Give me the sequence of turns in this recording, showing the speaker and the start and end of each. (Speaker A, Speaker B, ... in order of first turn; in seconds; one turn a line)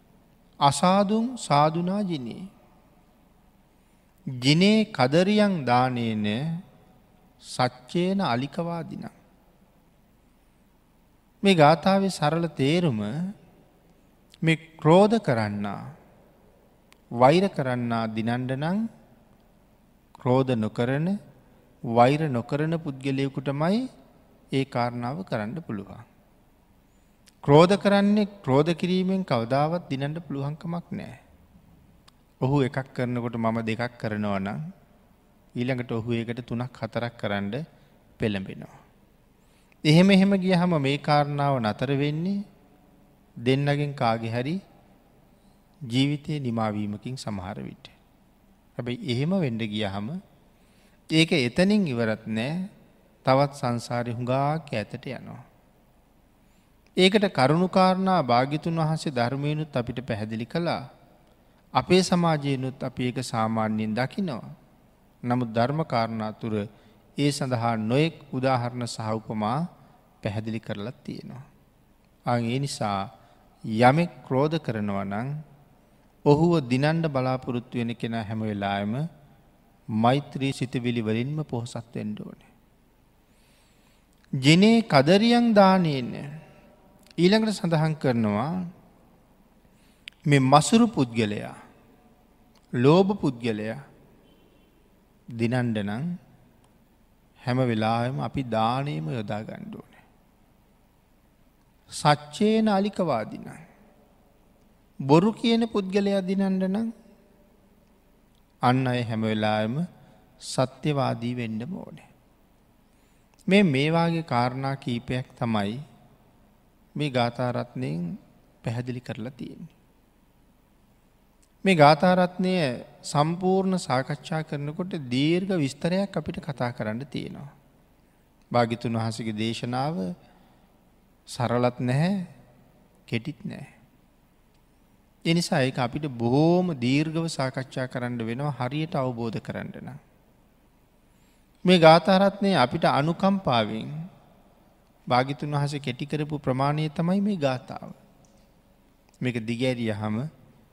Speaker A: 0.7-2.5
Speaker A: 4.4-6.4
Speaker A: 7.5-9.1
Speaker A: 11.4-13.1
Speaker A: 14.4-15.8
Speaker A: 17.2-18.8
Speaker A: 20.2-21.2
Speaker A: 21.9-23.8
Speaker A: 24.6-26.1
Speaker A: 27.4-31.2
Speaker A: 32.4-34.6
Speaker A: 35.5-37.6
Speaker A: 38.2-38.8
Speaker A: 39.9-42.4
Speaker A: 43.5-44.6
Speaker A: 45.9-48.0
Speaker A: 48.8-50.2
Speaker A: 51.1-52.7
Speaker A: 53.2-55.4
Speaker A: 57.0-60.8
Speaker A: 61.8-64.5
Speaker A: 65.2-66.7
Speaker A: 67.2-69.7
Speaker A: 70.2-71.4
Speaker A: 72.3-73.1
Speaker A: 73.8-75.3
Speaker A: 76.3-79.0
Speaker A: 80.0-82.5
Speaker A: 84.4-86.4
Speaker A: 87.2-88.7
Speaker A: 90.3-91.6
Speaker A: 92.8-93.8
Speaker A: 95.4-96.0
Speaker A: 97.4-100.0
Speaker A: 102.0-103.6
Speaker A: 105.1-106.9
Speaker A: 108.7-109.8
Speaker A: 110.5-112.1
Speaker A: 113.5-115.8
Speaker A: 117.0-118.1
Speaker A: 118.6-119.7
Speaker A: 121.6-127.5
Speaker A: 128.5-130.1
Speaker A: 131.3-132.3
Speaker A: 133.1-133.8
Speaker A: 135.3-140.0
Speaker A: 141.7-143.9
Speaker A: 145.1-148.0
Speaker A: 149.2-150.3